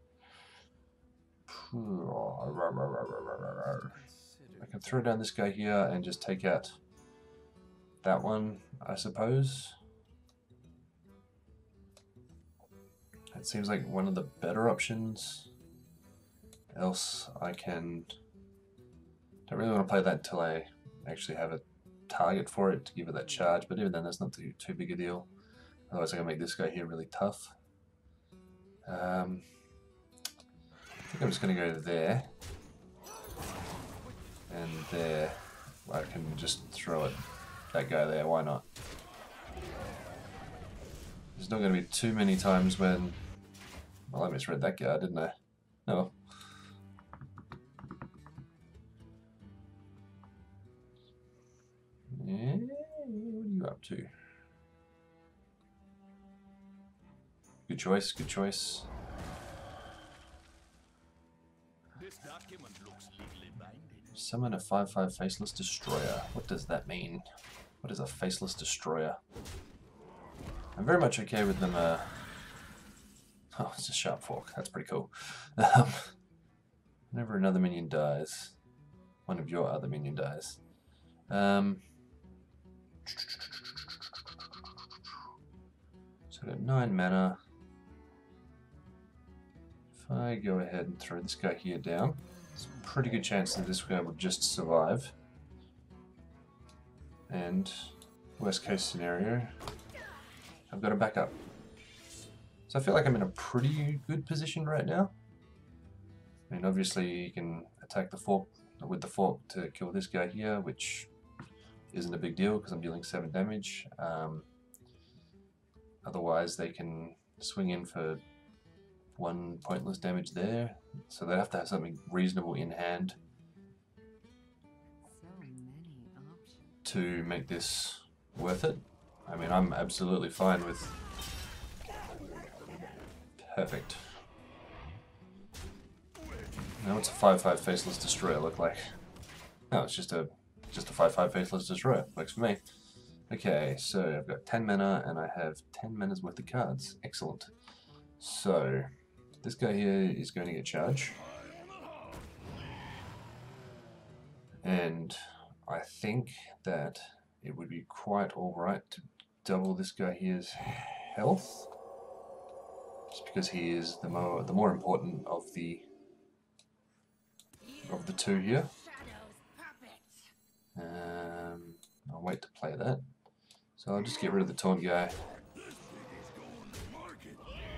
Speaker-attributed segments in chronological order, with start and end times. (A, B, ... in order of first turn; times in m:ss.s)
0:01.5-0:04.0 A
0:03.7-0:04.9 B
0:04.6-0:06.8 A
0:08.0-0:09.8 A
0:13.3-0:15.5 A
0:16.7-0:18.1 A
0:19.5-0:25.3 A
0:25.9-0:27.6 A
0:28.8-0:29.5 A
0:31.1-0:32.3 A
0:34.5-0:38.6 A
0:41.4-0:43.2 A
0:44.1-0:46.2 A
0:52.1-0:54.1 A
0:57.7-0:58.9 A
1:01.9-1:04.2 C
1:04.1-1:07.2 A
1:07.8-1:09.2 A
1:10.8-1:12.2 A
1:13.5-1:16.1 A
1:17.1-1:18.6 A
1:19.2-1:20.7 A
1:21.3-1:21.8 A
1:23.0-1:23.8 A
1:26.3-1:27.4 A
1:29.9-1:35.1 A
1:37.3-1:39.5 A
1:40.7-1:41.4 A
1:42.7-1:45.1 A
1:46.5-1:51.1 A
1:51.9-1:54.5 A
1:56.0-1:58.2 A
1:59.2-2:03.2 A
2:05.0-2:06.8 B
2:06.8-2:11.0 A
2:13.4-2:14.2 A
2:16.8-2:18.8 A
2:19.7-2:22.6 A
2:23.3-2:27.5 A
2:28.2-2:28.9 A
2:29.4-2:31.2 A
2:34.6-2:41.7 A
2:43.1-2:45.8 A
2:47.8-2:48.8 A
2:50.7-2:53.0 A
2:53.8-2:55.2 A
2:56.2-2:57.5 C